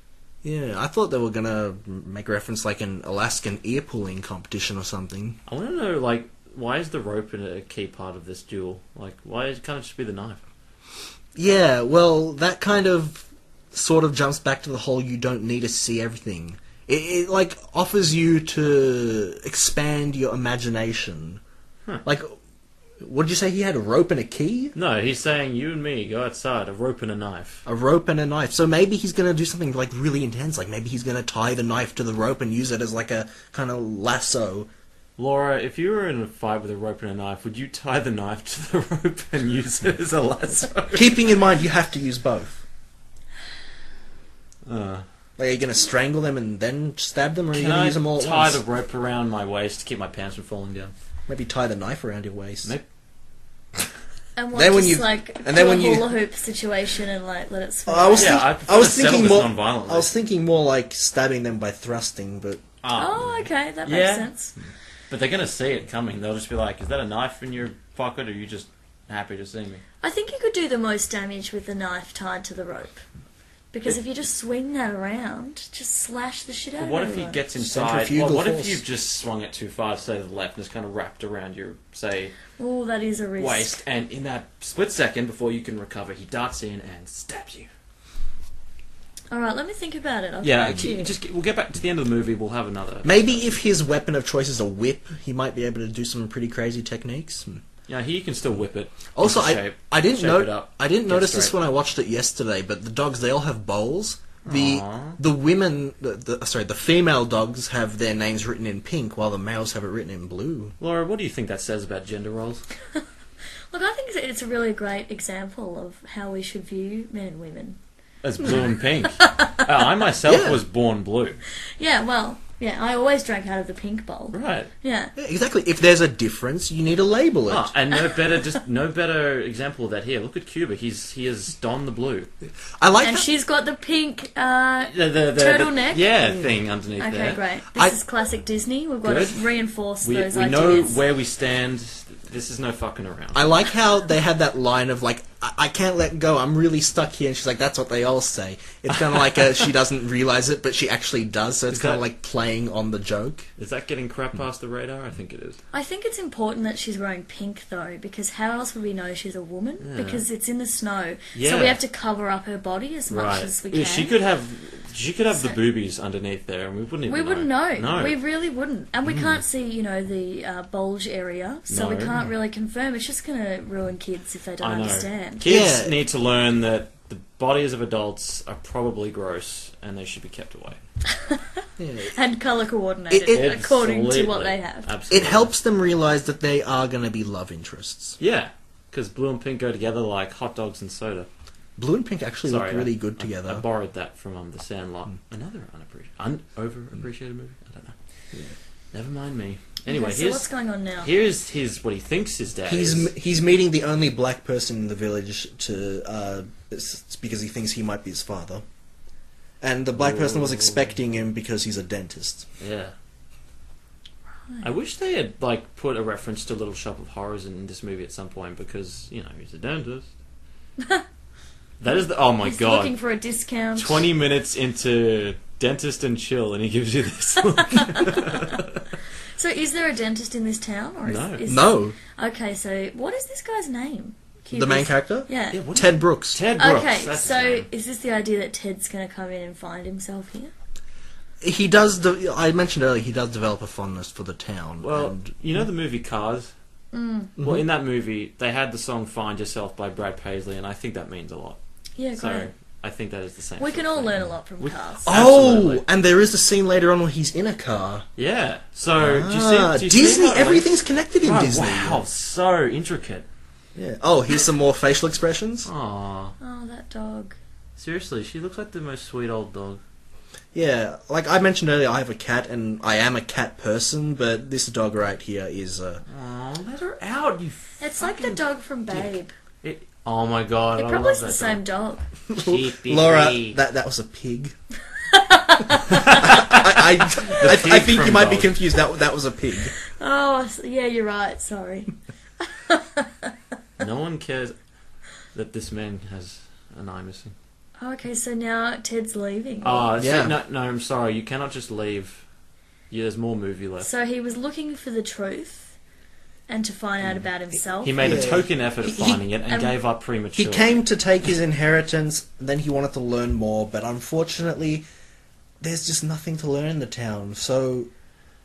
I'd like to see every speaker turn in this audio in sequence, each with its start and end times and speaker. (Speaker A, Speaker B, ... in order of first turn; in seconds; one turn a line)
Speaker A: 0.4-5.4
Speaker B: 5.5-10.4
Speaker A: 11.3-21.4
Speaker A: 22.1-22.4
Speaker A: 23.0-24.7
Speaker B: 24.8-27.6
Speaker A: 27.7-34.7
Speaker B: 35.2-41.1
Speaker A: 40.9-42.6
Speaker B: 44.7-45.0
Speaker A: 45.4-48.6
Speaker B: 47.5-50.9
Speaker A: 51.3-52.7
Speaker C: 54.4-58.4
Speaker A: 54.5-56.1
Speaker A: 57.9-62.6
Speaker B: 58.2-60.1
Speaker B: 62.8-63.3
Speaker C: 62.9-64.5
Speaker B: 63.9-64.3
Speaker B: 65.1-69.8
Speaker C: 70.0-73.0
Speaker C: 73.7-77.4
Speaker B: 76.8-82.4
Speaker A: 77.6-78.8
Speaker C: 82.6-83.8
Speaker B: 83.4-87.7
Speaker C: 89.3-91.1
Speaker B: 90.4-93.6
Speaker A: 93.0-97.6
Speaker B: 97.9-101.6
Speaker A: 99.1-110.8
Speaker B: 104.5-105.2
Speaker B: 110.8-112.6
Speaker C: 113.7-117.8
Speaker B: 118.2-121.4
Speaker C: 119.2-119.7
Speaker A: 120.2-120.6
Speaker C: 121.8-125.1
Speaker B: 124.3-124.7
Speaker A: 125.2-127.7
Speaker B: 127.5-132.3
Speaker A: 132.8-133.3
Speaker C: 133.0-136.1
Speaker B: 134.8-137.4
Speaker C: 137.0-141.0
Speaker B: 139.0-139.5
Speaker B: 140.0-143.5
Speaker A: 143.3-153.5
Speaker B: 151.7-152.1
Speaker B: 153.6-155.6
Speaker C: 155.7-164.2
Speaker B: 159.8-160.2
Speaker B: 161.3-161.8
Speaker B: 163.1-168.2
Speaker C: 167.1-175.4
Speaker A: 169.1-169.4
Speaker B: 171.7-172.2
Speaker B: 174.6-180.8
Speaker A: 175.4-176.0
Speaker C: 181.1-184.9
Speaker A: 181.8-182.2
Speaker A: 183.1-183.5
Speaker B: 183.3-185.5
Speaker A: 185.1-188.2
Speaker B: 188.2-191.3
Speaker A: 191.8-193.6
Speaker B: 192.4-197.9
Speaker B: 198.9-200.5
Speaker C: 199.9-201.1
Speaker B: 201.0-203.1
Speaker A: 202.7-208.6
Speaker A: 209.6-212.5
Speaker B: 209.9-211.0
Speaker B: 212.6-212.9
Speaker B: 214.6-220.1
Speaker B: 221.8-222.9
Speaker C: 222.4-224.1
Speaker B: 223.8-228.9
Speaker C: 227.5-228.6
Speaker C: 229.4-235.7
Speaker B: 231.1-231.5
Speaker A: 231.5-231.9
Speaker A: 234.5-236.4
Speaker B: 235.5-237.7
Speaker C: 236.6-240.5
Speaker A: 241.4-245.3
Speaker B: 244.8-246.5
Speaker C: 246.9-247.3
Speaker A: 247.4-247.6
Speaker B: 247.4-251.6
Speaker C: 252.0-252.5
Speaker B: 252.2-255.8
Speaker C: 253.6-255.1
Speaker A: 255.1-258.1
Speaker B: 258.2-263.3
Speaker A: 259.0-262.0
Speaker A: 263.8-265.7
Speaker B: 265.6-266.4
Speaker C: 266.4-267.4
Speaker B: 267.8-269.8
Speaker A: 270.5-276.0
Speaker B: 276.1-278.4
Speaker C: 277.8-279.3
Speaker B: 279.6-281.6
Speaker C: 280.8-282.1
Speaker A: 282.3-284.5
Speaker B: 282.4-283.6
Speaker C: 285.0-286.1
Speaker B: 285.9-288.6
Speaker A: 286.2-289.8
Speaker C: 289.9-293.3
Speaker B: 293.8-294.6
Speaker B: 295.3-297.4
Speaker C: 297.8-299.9
Speaker B: 299.6-302.2
Speaker A: 300.0-300.4
Speaker B: 302.9-303.9
Speaker C: 303.8-305.8
Speaker C: 306.5-308.4
Speaker B: 307.8-310.8
Speaker A: 307.9-309.2
Speaker C: 309.5-309.8
Speaker A: 310.4-314.9
Speaker A: 315.6-317.9